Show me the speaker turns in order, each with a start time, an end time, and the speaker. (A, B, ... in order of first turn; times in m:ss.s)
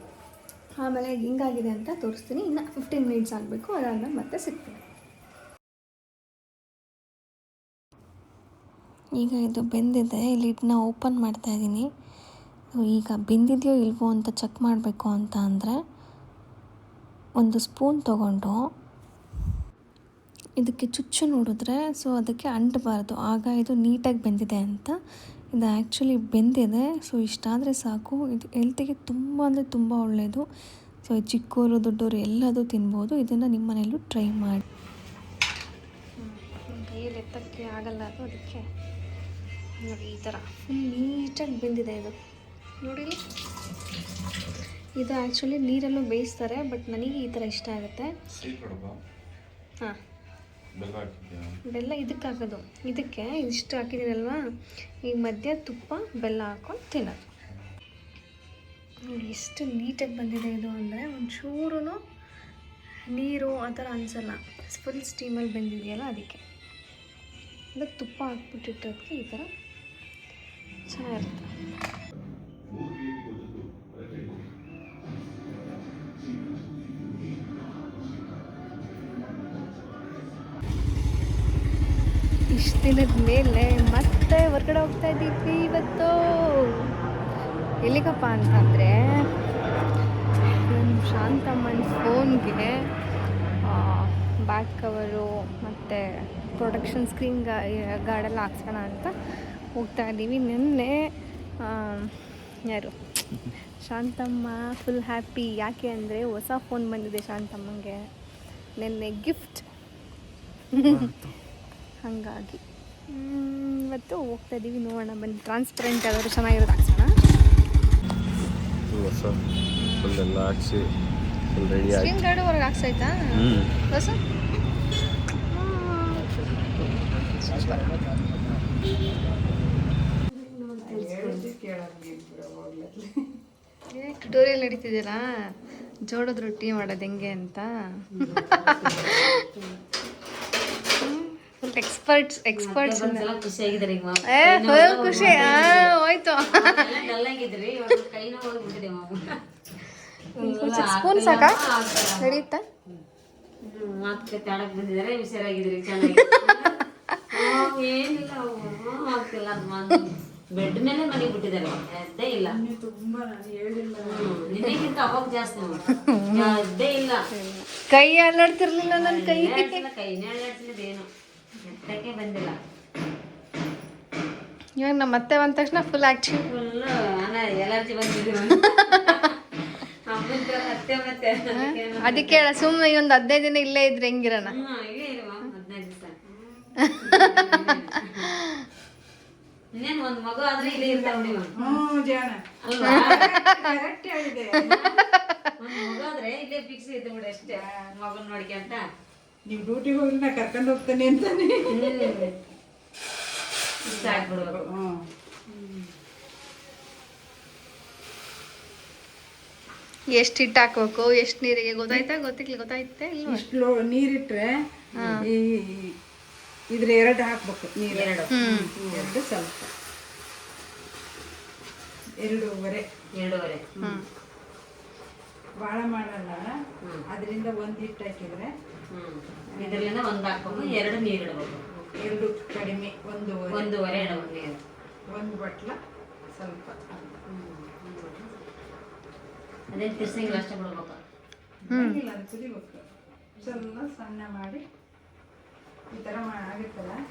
0:00.8-0:04.8 A
0:09.2-0:11.9 A
0:12.8-0:15.8 A
0:17.4-0:18.7 A
0:20.6-0:25.0 A
0:25.5-0:30.5 A
0:31.0-0:34.6 A
0:36.2-0:38.7 A
0:39.8-0:42.2 A
0:42.8-0:43.2 A
0:45.0-0:48.1 A
0:48.3-0:49.0 B
0:50.7-0:51.6 B
0:51.7-0:54.4 A
0:55.0-0:57.3 A
0:59.0-1:02.0 A
1:03.1-1:06.4 A
1:07.8-1:09.5 A
1:10.9-1:11.5 A
1:12.7-1:14.6 B
1:17.0-1:17.4 B
1:22.5-1:27.0 A
1:27.8-1:29.3 A
1:30.5-1:32.9 A
1:33.6-1:39.1 A
1:39.8-1:43.0 A
1:43.6-1:48.0 A
1:48.8-1:49.7 A
1:50.7-1:51.1 A
1:50.9-1:51.3 B
1:52.0-1:57.2 A
1:58.9-1:59.4 B
1:59.8-2:00.3 A
2:00.0-2:00.9 B
2:01.5-2:02.2 B
2:01.8-2:04.2 A
2:03.4-2:03.7 B
2:05.5-2:08.0 A
2:10.3-2:11.5 C
2:10.8-2:13.4 D
2:13.9-2:19.4 A
2:18.2-2:19.8 C
2:21.0-2:23.3 A
2:22.6-2:29.4 C
2:24.3-2:27.1 A
2:30.3-2:33.0 C
2:30.4-2:32.6 A
2:33.6-2:42.6 C
2:36.0-2:37.5 A
2:42.4-2:44.8 D
2:44.0-2:47.3 C
2:45.6-2:46.2 D
2:46.0-2:46.6 A
2:47.3-2:49.8 A
2:48.9-2:51.1 C
2:51.6-2:52.6 C
2:54.8-2:56.5 A
2:56.5-3:02.6 C
3:01.5-3:04.6 A
3:04.4-3:06.3 C
3:06.8-3:07.5 A
3:06.9-3:08.4 C
3:08.2-3:08.7 A
3:09.7-3:11.6 C
3:10.6-3:15.0 D
3:12.6-3:13.4 C
3:12.8-3:13.8 A
3:14.6-3:15.6 A
3:14.6-3:15.0 C
3:15.6-3:18.9 C
3:17.5-3:17.9 D
3:19.5-3:22.4 D
3:21.7-3:22.3 C
3:23.8-3:24.7 C
3:23.8-3:25.1 D
3:25.5-3:25.9 C
3:30.1-3:33.4 A
3:33.3-3:36.0 D
3:34.9-3:35.2 C
3:35.0-3:35.3 A
3:36.7-3:39.7 D
3:37.9-3:39.1 C
3:38.3-3:38.7 A
3:42.2-3:42.9 D
3:43.1-3:43.6 C
3:43.8-3:44.0 D
3:45.6-3:48.6 D
3:46.8-3:47.1 C
3:48.9-3:51.7 C
3:49.6-3:49.9 D
3:50.4-3:50.8 D
3:51.8-3:54.4 D
3:53.5-3:54.6 C
3:55.1-3:55.8 D
3:56.3-3:57.2 D
3:57.3-3:58.4 C
3:59.7-4:01.0 C
4:01.6-4:02.8 D
4:01.7-4:02.0 A
4:03.4-4:04.6 D
4:05.9-4:07.0 D